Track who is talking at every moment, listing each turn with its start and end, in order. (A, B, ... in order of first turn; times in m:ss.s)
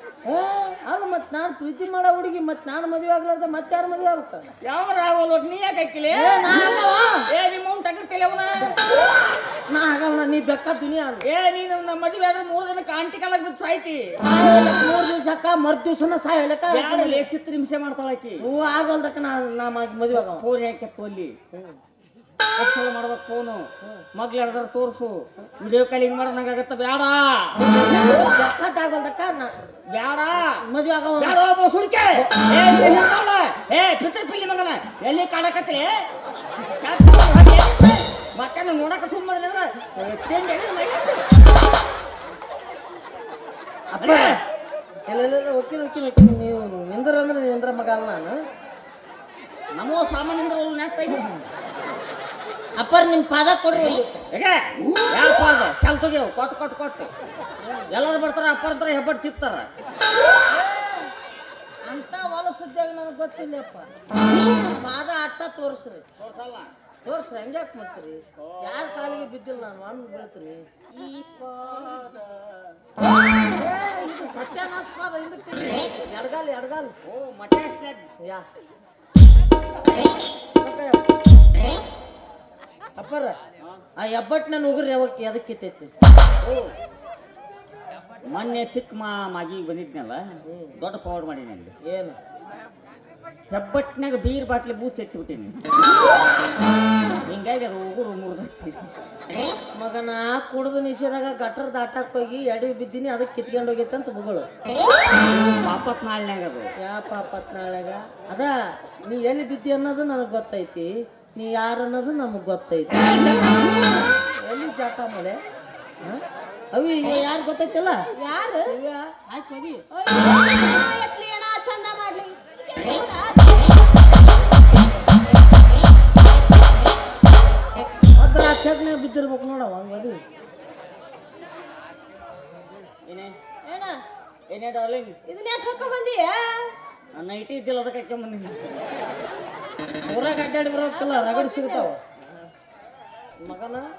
0:00.3-0:04.5 A
0:04.6-0:06.6 B
0:06.1-0:07.3 A
0:07.3-0:08.8 B
0:09.7-0:11.2 A
0:11.2-0:14.2 B
0:14.2-0:17.3 A
0:16.7-0:18.4 B
0:18.4-0:20.5 A
0:20.1-0:21.3 B
0:21.5-0:21.8 A
0:22.6-0:27.6 B
0:27.6-0:29.5 A
0:29.9-0:30.6 B
0:30.4-0:31.4 A
0:31.2-0:36.0 B
0:36.8-0:41.3 B
0:43.9-0:44.4 A
0:44.0-0:44.4 B
0:45.1-0:48.4 A
0:49.8-0:51.5 B
0:52.8-0:54.2 A
0:54.3-0:57.1 B
0:57.6-0:57.9 A
0:57.8-0:59.7 B
1:01.9-1:03.9 A
1:04.7-1:06.0 A
1:06.2-1:06.7 B
1:07.0-1:10.6 A
1:08.4-1:09.3 B
1:10.9-1:12.8 B
1:13.5-1:16.9 A
1:17.0-1:18.0 B
1:20.6-1:21.0 A
1:23.0-1:23.3 A
1:24.0-1:25.9 A
1:26.4-1:26.7 B
1:28.3-1:30.2 B
1:30.5-1:30.8 A
1:30.8-1:31.7 B
1:31.8-1:32.2 A
1:33.5-1:35.6 B
1:37.3-1:38.9 B
1:39.8-1:44.5 A
1:45.3-1:46.7 B
1:46.8-1:48.5 A
1:49.1-1:53.2 A
1:53.1-1:54.0 C
1:54.3-1:55.4 A
1:56.7-1:58.0 A
1:58.2-1:58.8 C
1:58.6-1:59.8 A
1:59.9-2:03.8 C
2:08.2-2:10.2 A
2:13.1-2:13.4 B
2:13.7-2:14.0 C
2:14.5-2:15.2 B
2:15.3-2:16.8 C
2:17.2-2:19.0 B
2:20.1-2:22.0 A
2:20.9-2:21.9 C
2:23.4-2:23.9 A